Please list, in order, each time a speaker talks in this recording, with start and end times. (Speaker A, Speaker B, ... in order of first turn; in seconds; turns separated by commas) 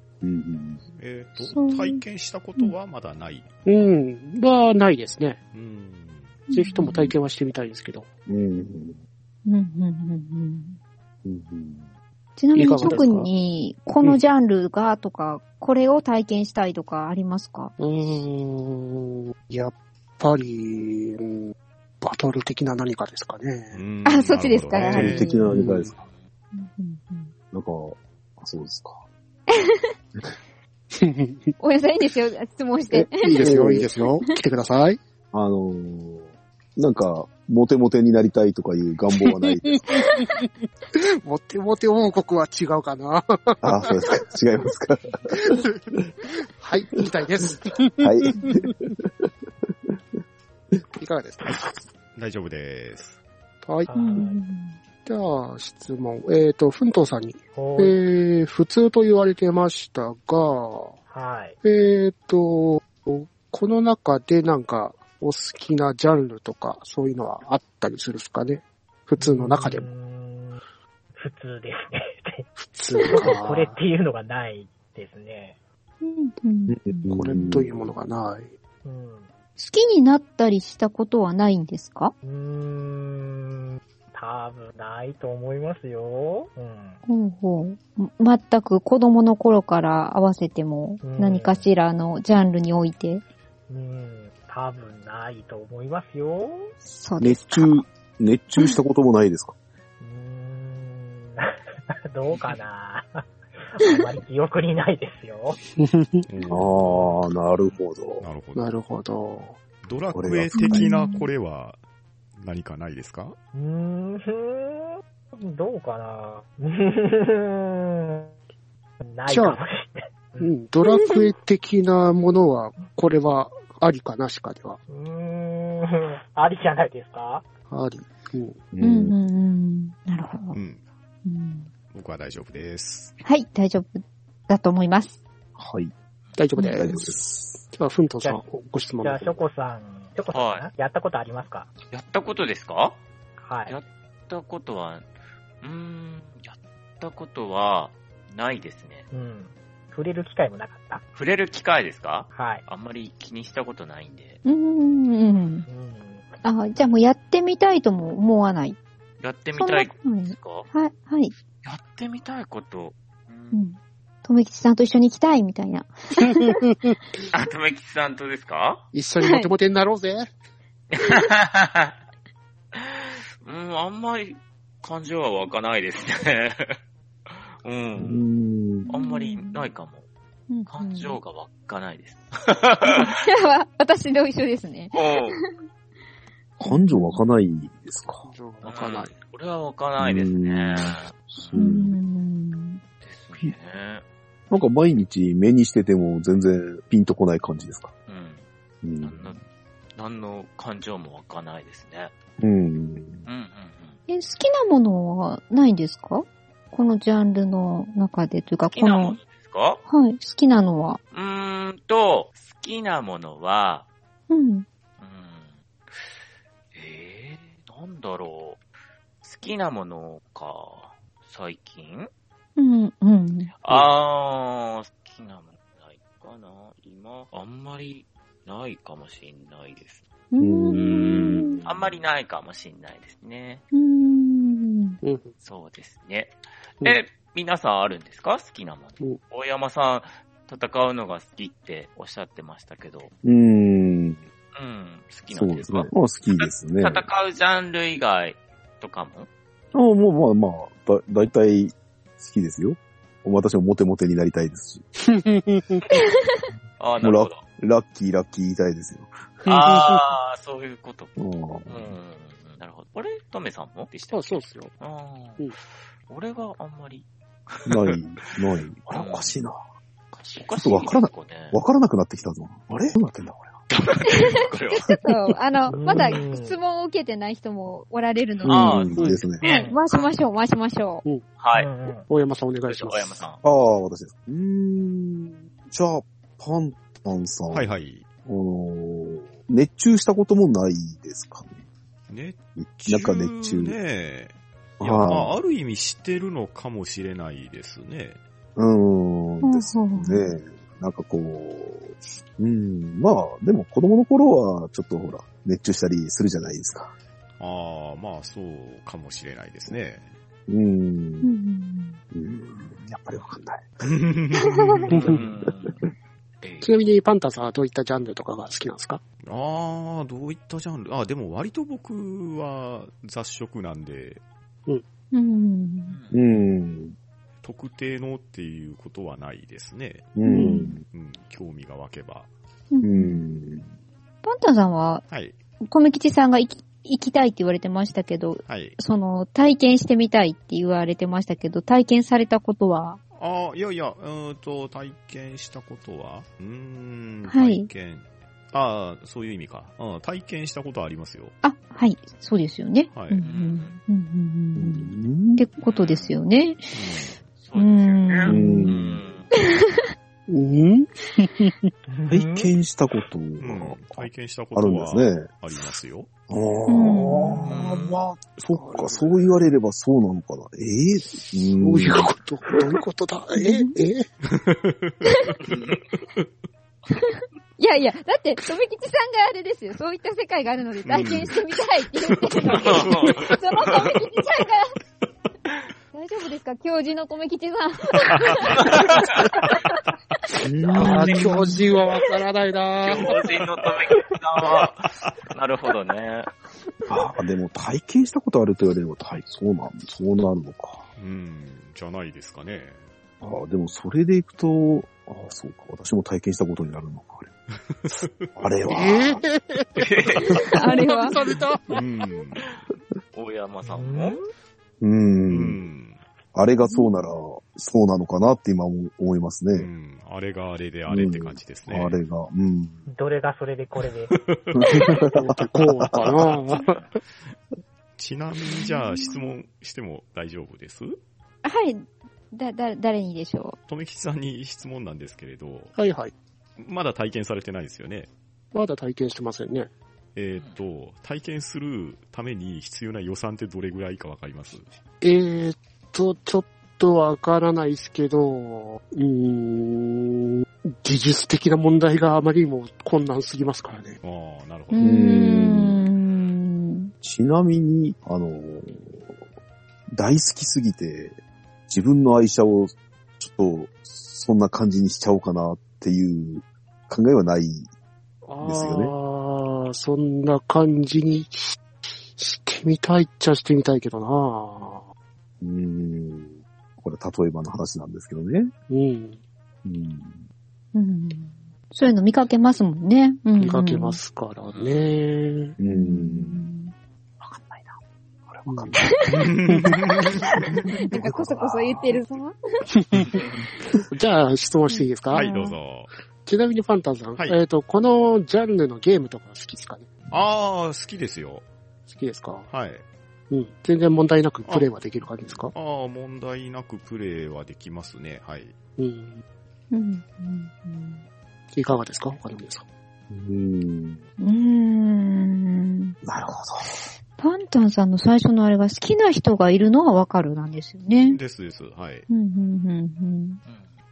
Speaker A: 0.2-0.8, Speaker B: 0.9-3.5, Speaker C: 1.5-2.0, Speaker D: 3.6-5.4, Speaker B: 5.5-6.4, Speaker C: 6.5-7.0, Speaker D: 6.5-8.1, Speaker A: 6.9-7.1, Speaker A: 8.3-9.0, Speaker C: 9.4-10.8, Speaker A: 11.2-11.9, Speaker C: 12.4-17.7, Speaker D: 12.6-13.3, Speaker D: 17.8-23.8, Speaker B: 23.7-25.3, Speaker C: 24.0-25.6, Speaker A: 24.8-26.0, Speaker D: 24.9-25.9, Speaker C: 26.5-27.3, Speaker A: 27.5-29.0, Speaker C: 29.5-29.9, Speaker D: 30.9-31.5, Speaker C: 31.6-33.5, Speaker D: 33.2-35.0, Speaker A: 33.4-33.9, Speaker A: 35.3-39.8, Speaker D: 39.2-44.2, Speaker A: 43.6-46.1, Speaker D: 45.3-48.7, Speaker A: 47.5-49.3, Speaker D: 50.9-51.6, Speaker B: 52.1-53.2, Speaker D: 53.6-53.9, Speaker E: 53.8-54.4, Speaker C: 53.9-54.8, Speaker D: 55.0-61.0, Speaker E: 57.5-58.0, Speaker E: 61.1-61.6, Speaker D: 61.6-69.9, Speaker E: 69.2-70.6, Speaker E: 71.2-75.6, Speaker D: 72.6-73.8, Speaker C: 76.0-77.1, Speaker A: 76.7-77.9, Speaker D: 77.1-78.5, Speaker E: 78.8-79.3, Speaker C: 79.6-82.1, Speaker E: 82.2-87.0, Speaker C: 87.1-93.2, Speaker E: 91.0-91.7, Speaker E: 93.7-96.7, Speaker C: 96.9-97.8, Speaker A: 97.2-99.5, Speaker E: 100.0-105.6, Speaker D: 105.8-106.3, Speaker B: 106.3-107.2, Speaker A: 106.5-108.3, Speaker B: 108.2-108.7, Speaker D: 108.5-109.5, Speaker B: 109.8-111.8, Speaker A: 110.1-110.9, Speaker C: 110.5-111.3, Speaker B: 112.4-113.3, Speaker E: 113.5-118.3, Speaker E: 119.0-120.5, Speaker D: 119.3-119.6, Speaker D: 120.4-124.8, Speaker C: 120.8-121.3, Speaker E: 124.9-127.5, Speaker D: 127.7-128.6, Speaker A: 128.7-129.1, Speaker C: 128.8-130.6, Speaker B: 130.5-130.8, Speaker C: 131.2-131.7, Speaker B: 131.9-133.1, Speaker C: 133.2-135.2, Speaker A: 135.6-135.9, Speaker D: 136.3-139.4, Speaker C: 136.6-136.8, Speaker A: 136.7-137.6, Speaker E: 139.0-141.7, Speaker F: 140.3-140.7, Speaker F: 141.9-143.0, Speaker E: 143.4-143.8, Speaker F: 143.7-145.0, Speaker F: 145.6-149.1, Speaker E: 149.1-151.0, Speaker F: 151.1-154.4, Speaker E: 152.3-152.6, Speaker C: 154.4-155.6, Speaker E: 155.7-156.3, Speaker C: 156.4-158.8, Speaker F: 159.2-160.7, Speaker C: 159.5-161.3, Speaker F: 161.6-163.6, Speaker C: 163.5-166.6, Speaker D: 166.2-167.0, Speaker F: 167.3-168.8, Speaker D: 168.9-170.3, Speaker C: 169.2-169.5, Speaker F: 170.9-171.9, Speaker F: 172.7-176.7, Speaker F: 177.3-178.2, Speaker A: 178.0-178.9, Speaker C: 178.9-179.7, Speaker F: 178.9-180.1, Speaker C: 180.5-181.2, Speaker F: 180.7-183.2, Speaker C: 182.8-185.5, Speaker F: 184.9-185.4, Speaker A: 186.6-188.3, Speaker C: 186.6-187.2, Speaker D: 188.2-189.2, Speaker F: 188.6-191.7, Speaker A: 190.0-191.9, Speaker C: 191.5-192.8, Speaker F: 193.0-194.0, Speaker A: 194.5-197.9, Speaker F: 198.1-198.4, Speaker A: 198.8-199.4, Speaker F: 199.0-199.4, Speaker F: 199.9-202.1, Speaker A: 202.4-203.2, Speaker F: 203.2-204.0, Speaker C: 204.1-209.2, Speaker F: 208.7-209.8, Speaker C: 209.9-211.0, Speaker F: 211.1-213.9, Speaker C: 214.3-214.6, Speaker F: 215.0-216.1, Speaker F: 216.7-218.6, Speaker F: 219.2-222.1, Speaker C: 222.6-223.5, Speaker F: 223.6-230.0, Speaker C: 230.3-231.6, Speaker A: 230.4-232.0, Speaker F: 230.7-233.6, Speaker C: 233.7-235.0, Speaker D: 235.0-235.3, Speaker F: 235.4-243.1, Speaker A: 243.2-244.2, Speaker F: 244.5-249.3, Speaker A: 245.3-247.1, Speaker A: 249.7-254.8, Speaker D: 255.0-255.8, Speaker C: 255.9-256.4, Speaker F: 256.8-257.4, Speaker A: 257.0-259.1, Speaker D: 259.4-260.1, Speaker F: 259.5-265.4, Speaker A: 261.2-261.9, Speaker D: 264.1-264.7, Speaker F: 266.1-268.0, Speaker A: 267.6-269.6, Speaker F: 268.9-269.4, Speaker D: 270.1-270.5, Speaker F: 270.4-271.6, Speaker A: 270.5-273.6, Speaker F: 273.7-275.0, Speaker C: 274.1-278.9, Speaker E: 275.7-276.6, Speaker A: 278.4-279.4, Speaker F: 278.4-280.1, Speaker C: 279.4-281.0, Speaker E: 279.4-279.8, Speaker F: 281.4-281.7, Speaker E: 281.5-282.1, Speaker D: 282.1-283.2, Speaker F: 282.7-283.4, Speaker A: 283.4-287.7, Speaker B: 287.5-288.0, Speaker A: 288.2-291.6, Speaker B: 292.1-298.2, Speaker A: 292.6-293.8, Speaker A: 294.8-295.4, Speaker A: 298.6-306.9, Speaker C: 299.4-300.3, Speaker B: 307.4-310.1, Speaker A: 310.5-311.3, Speaker C: 311.2-312.0, Speaker A: 312.1-313.9, Speaker B: 313.8-314.9, Speaker C: 314.3-314.9, Speaker D: 314.9-315.2, Speaker F: 314.9-315.8, Speaker A: 315.0-315.8, Speaker F: 316.4-316.7, Speaker D: 316.6-319.0, Speaker B: 319.2-324.2, Speaker C: 325.1-326.0, Speaker F: 325.9-326.2, Speaker A: 326.1-326.9, Speaker B: 327.4-330.2, Speaker A: 330.1-330.8, Speaker D: 330.2-330.6, Speaker C: 330.3-330.8, Speaker B: 330.8-332.3, Speaker C: 332.7-333.2, Speaker A: 332.8-333.7, Speaker C: 334.2-335.0, Speaker B: 335.1-335.4, Speaker C: 335.7-343.0, Speaker B: 338.4-338.8, Speaker B: 343.1-351.3, Speaker C: 347.3-347.7, Speaker C: 351.4-356.8, Speaker B: 352.9-353.2, Speaker F: 353.2-353.8, Speaker A: 354.6-355.4, Speaker F: 355.6-356.2, Speaker B: 356.7-357.1, Speaker F: 357.4-359.3, Speaker C: 357.5-358.7, Speaker A: 358.3-359.0, Speaker C: 359.3-359.9, Speaker D: 360.3-361.7, Speaker E: 361.9-362.5, Speaker A: 362.1-365.3, Speaker B: 363.4-366.1, Speaker A: 366.3-372.1, Speaker C: 366.7-367.6, Speaker F: 367.4-368.0, Speaker D: 368.5-369.2, Speaker D: 371.1-374.1, Speaker C: 373.4-373.8, Speaker B: 374.2-376.3, Speaker C: 375.0-375.4, Speaker F: 375.4-375.8, Speaker C: 376.9-384.8, Speaker B: 380.9-381.4, Speaker B: 382.1-383.1, Speaker F: 382.5-384.0, Speaker C: 385.9-388.7, Speaker B: 387.9-388.6, Speaker F: 388.6-389.2, Speaker A: 390.4-391.4, Speaker D: 390.7-393.4, Speaker F: 390.8-391.2, Speaker F: 392.8-396.3, Speaker B: 394.4-395.1, Speaker A: 396.9-400.9, Speaker B: 401.0-402.8, Speaker A: 403.2-407.3, Speaker B: 407.7-408.3, Speaker A: 408.3-409.2, Speaker D: 408.7-411.8, Speaker F: 409.8-410.5, Speaker C: 410.4-411.2, Speaker B: 411.7-412.5, Speaker F: 413.1-414.2, Speaker E: 413.6-414.2, Speaker A: 414.8-415.6, Speaker B: 415.3-416.0, Speaker A: 416.3-419.7, Speaker B: 419.5-422.0, Speaker A: 420.9-422.8, Speaker E: 422.9-424.1, Speaker B: 424.1-424.6, Speaker A: 424.5-426.3, Speaker D: 425.0-427.0, Speaker B: 428.0-431.0, Speaker C: 428.5-429.2, Speaker C: 431.4-433.6, Speaker B: 433.6-435.7, Speaker D: 435.7-436.1, Speaker B: 436.6-438.1, Speaker D: 438.5-439.7, Speaker B: 440.1-444.6, Speaker D: 445.0-454.0, Speaker B: 454.0-454.9, Speaker C: 454.7-456.9, Speaker A: 454.8-455.8, Speaker A: 457.0-459.1, Speaker A: 459.9-461.1, Speaker A: 461.7-467.7, Speaker D: 468.2-471.6, Speaker A: 468.4-468.9, Speaker D: 472.1-474.8, Speaker A: 475.4-478.5, Speaker D: 478.7-479.2, Speaker A: 479.6-480.2, Speaker C: 480.7-484.0, Speaker D: 483.4-485.6, Speaker F: 484.5-484.9, Speaker A: 485.6-486.4, Speaker C: 485.7-486.7, Speaker A: 487.2-489.0, Speaker D: 488.5-488.7, Speaker C: 488.7-489.3, Speaker B: 489.1-490.2, Speaker A: 490.5-492.0, Speaker C: 490.7-492.6, Speaker D: 492.7-493.2, Speaker D: 493.9-495.3, Speaker C: 494.7-495.6, Speaker B: 495.1-495.9, Speaker D: 496.2-499.9, Speaker B: 500.1-501.4, Speaker D: 501.9-502.5, Speaker B: 502.5-502.8, Speaker D: 503.3-505.5, Speaker B: 504.4-504.7, Speaker B: 505.5-508.5, Speaker D: 508.8-509.2, Speaker C: 509.7-511.0, Speaker D: 511.5-512.6, Speaker A: 513.1-514.0, Speaker C: 514.2-515.9, Speaker A: 516.0-516.7, Speaker C: 517.2-521.2, Speaker B: 521.0-522.0, Speaker C: 522.1-523.4, Speaker F: 523.5-523.7